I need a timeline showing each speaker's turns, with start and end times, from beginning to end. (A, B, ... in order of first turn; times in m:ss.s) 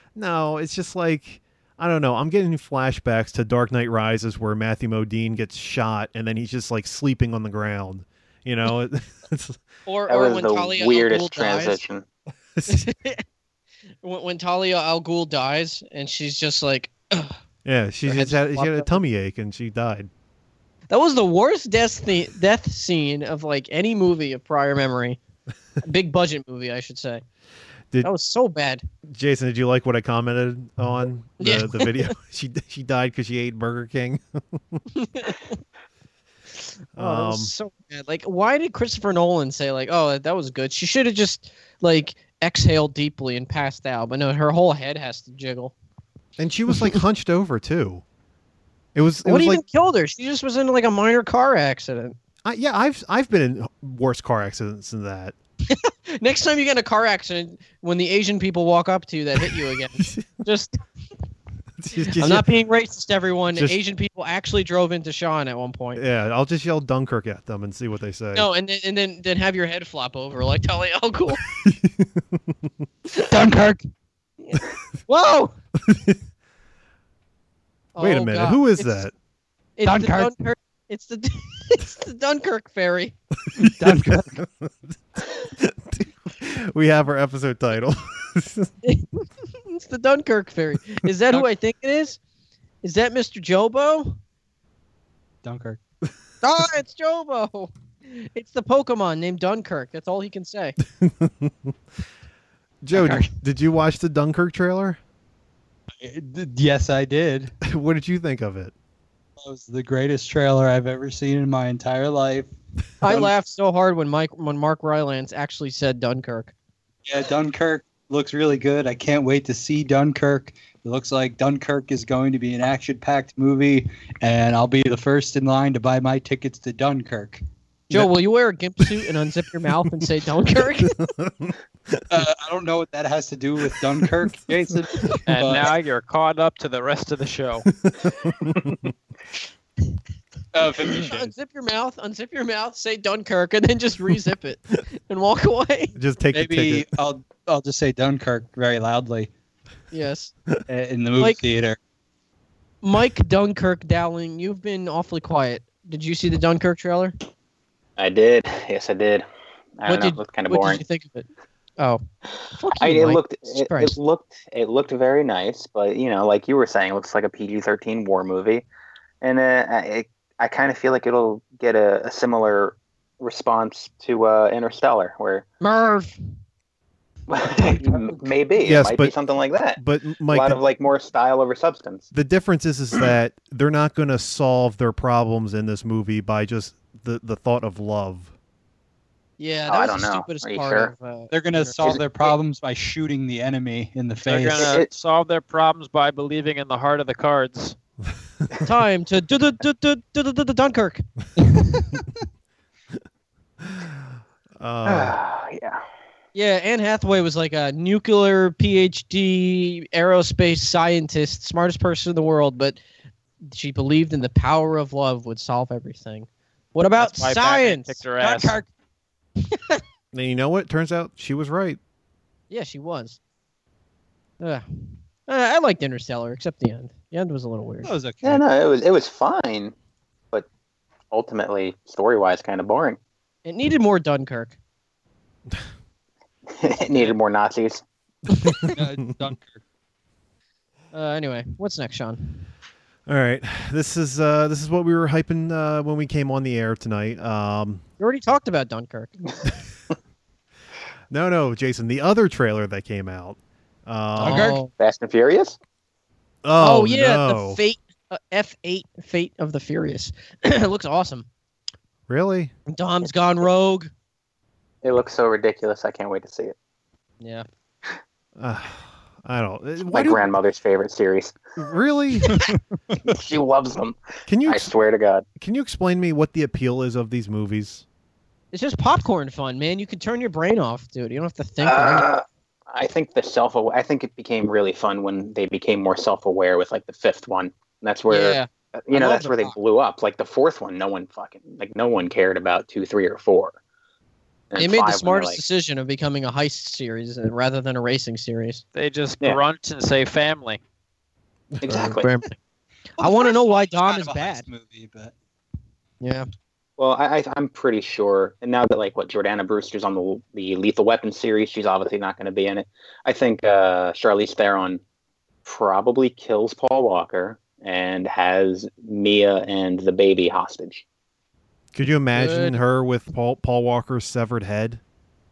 0:00.1-0:09.6 A
0:09.9-0:11.8 B
0:10.1-0:12.0 C
0:12.6-0:13.2 B
0:14.0-0:17.4 B
0:17.6-0:20.1 A
0:18.1-0:19.0 B
0:20.9-0:25.2 B
0:25.8-0:27.2 B
0:28.0-0:28.8 B
0:29.1-0:34.8 A
0:31.4-0:32.1 B
0:35.0-0:35.5 B
0:36.9-0:45.7 B
0:37.0-0:37.5 A
0:46.4-0:48.0 A
0:48.9-0:49.6 A
0:49.2-0:52.2 B
0:52.4-0:55.4 A
0:55.7-1:00.8 B
1:00.0-1:00.2 A
1:01.8-1:02.5 A
1:02.2-1:06.0 B
1:06.0-1:08.5 A
1:08.4-1:11.4 B
1:11.5-1:12.7 A
1:13.3-1:13.9 D
1:14.4-1:15.6 B
1:15.8-1:16.2 A
1:17.9-1:19.1 B
1:18.0-1:19.1 A
1:19.8-1:23.1 B
1:19.9-1:20.3 D
1:23.6-1:28.7 A
1:23.6-1:24.4 D
1:29.6-1:32.2 B
1:32.8-1:34.2 B
1:35.4-1:35.8 D
1:36.4-1:40.8 B
1:41.0-1:41.7 A
1:42.8-1:45.0 A
1:42.9-1:43.3 D
1:46.0-1:47.5 D
1:47.6-1:48.7 A
1:49.4-1:52.5 D
1:53.0-1:56.5 B
1:53.0-1:53.3 D
1:57.1-2:07.4 D
2:07.9-2:11.0 B
2:10.8-2:12.3 A
2:12.1-2:15.7 D
2:14.0-2:14.3 A
2:15.3-2:17.7 E
2:17.8-2:18.9 A
2:20.5-2:21.3 D
2:20.8-2:25.9 B
2:26.0-2:26.9 A
2:26.3-2:29.3 D
2:29.9-2:30.3 B
2:30.7-2:31.8 D
2:32.8-2:37.1 B
2:38.0-2:39.2 C
2:39.8-2:40.8 C
2:39.9-2:41.3 B
2:42.5-2:44.0 B
2:42.8-2:48.6 C
2:49.2-2:55.4 C
2:55.6-2:56.1 B
2:57.3-3:02.1 C
2:57.7-2:58.2 D
2:58.6-2:59.1 A
2:59.8-3:00.6 A
3:02.1-3:08.3 A
3:09.4-3:11.8 B
3:09.7-3:10.9 C
3:11.3-3:14.8 D
3:14.3-3:17.8 E
3:14.6-3:14.9 C
3:18.6-3:21.6 B
3:23.6-3:24.0 A
3:24.6-3:25.2 A
3:24.9-3:25.8 C
3:26.3-3:32.8 B
3:33.4-3:38.0 B
3:37.0-3:38.6 E
3:38.2-3:38.7 D
3:39.5-3:39.8 B
3:40.1-3:41.8 A
3:42.5-3:43.2 B
3:44.4-3:47.9 B
3:47.8-3:48.4 D
3:48.2-3:49.7 C
3:51.1-3:53.0 C
3:53.4-3:54.6 B
3:56.5-3:57.8 C
3:58.6-3:59.6 D
4:00.9-4:02.4 B
4:03.1-4:07.8 A
4:08.0-4:09.1 B
4:11.1-4:14.5 A
4:14.2-4:14.6 D
4:14.2-4:14.7 B
4:14.7-4:15.6 C
4:16.4-4:17.6 A
4:16.6-4:21.3 B
4:22.1-4:22.5 A
4:22.7-4:23.9 B
4:24.8-4:26.6 C
4:28.4-4:30.3 A
4:29.9-4:31.4 C
4:31.6-4:32.4 A
4:32.3-4:32.6 D
4:33.1-4:35.2 C
4:34.3-4:34.7 A
4:35.4-4:37.8 A
4:38.5-4:42.1 B
4:41.6-4:53.6 C
4:48.1-4:49.6 B
4:54.5-4:55.4 C
4:54.6-4:58.6 B
4:58.8-5:00.6 E
5:01.6-5:01.9 A
5:01.6-5:02.1 C
5:01.7-5:02.4 B
5:03.0-5:04.4 B
5:03.0-5:05.1 D
5:06.0-5:06.3 B
5:06.8-5:14.8 C
5:15.4-5:20.8 C
5:21.7-5:24.8 A
5:22.1-5:22.6 B